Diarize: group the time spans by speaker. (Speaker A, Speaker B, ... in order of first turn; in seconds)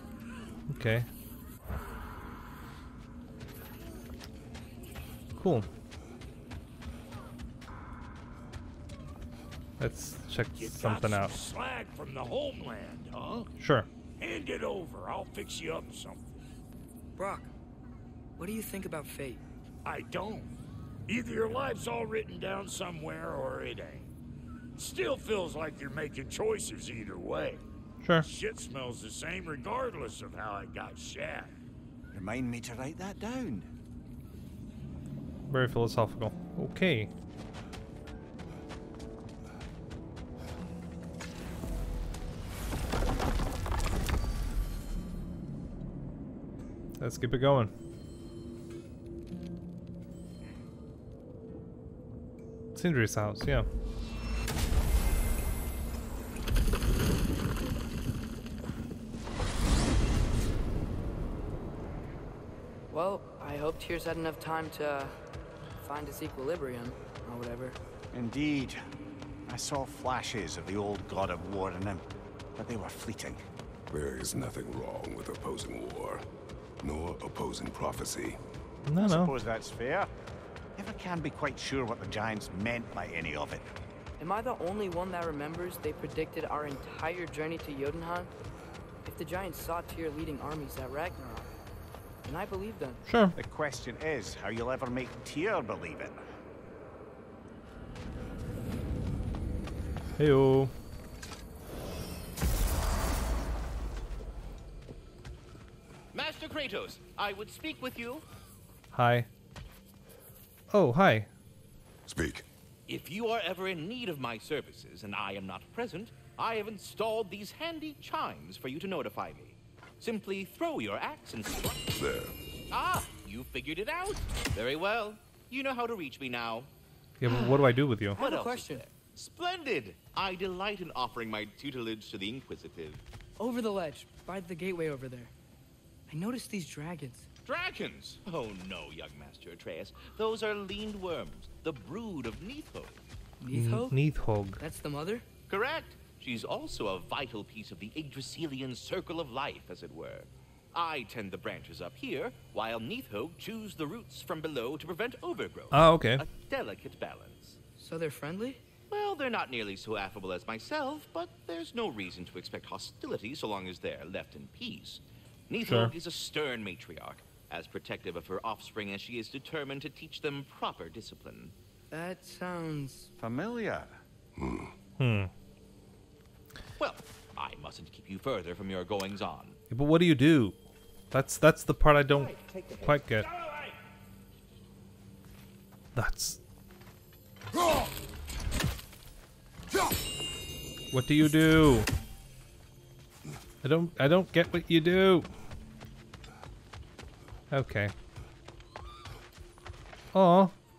Speaker A: 0.7-1.1, 5.4-5.7, 9.8-11.3, 13.6-13.9, 35.5-37.1, 47.0-47.7, 52.8-53.7, 78.9-79.3, 93.1-93.4, 100.2-100.7, 108.9-109.3, 110.7-111.3, 127.2-128.2, 143.5-144.6, 155.7-156.3, 165.6-165.9, 175.0-175.3, 179.7-180.6, 181.1-183.3, 185.9-186.4, 190.9-191.9, 193.6-195.3, 197.5-197.9, 200.1-200.5
Speaker B: 10.6-13.5, 14.2-16.3, 19.9-20.5, 21.1-24.1, 24.8-27.6, 28.2-31.5
Speaker C: 17.2-17.5, 18.4-19.4, 62.9-65.2, 65.8-67.8, 84.2-88.3, 89.0-91.5, 92.2-93.0, 127.3-127.6, 128.2-128.8, 133.4-135.3, 136.1-137.3, 143.4-144.0, 144.6-145.2, 157.8-158.6, 171.9-173.1
Speaker D: 32.1-33.7, 68.1-68.8, 69.5-72.0, 72.6-73.5, 79.1-80.1, 80.8-83.7, 93.4-96.2, 173.2-174.0
Speaker E: 73.9-76.3, 76.8-78.4, 112.1-112.5, 122.0-122.3, 174.4-174.7
Speaker F: 106.1-108.2, 112.9-122.0, 122.7-126.7, 128.2-133.0, 137.5-143.0, 145.5-157.6, 158.9-171.5, 176.8-179.6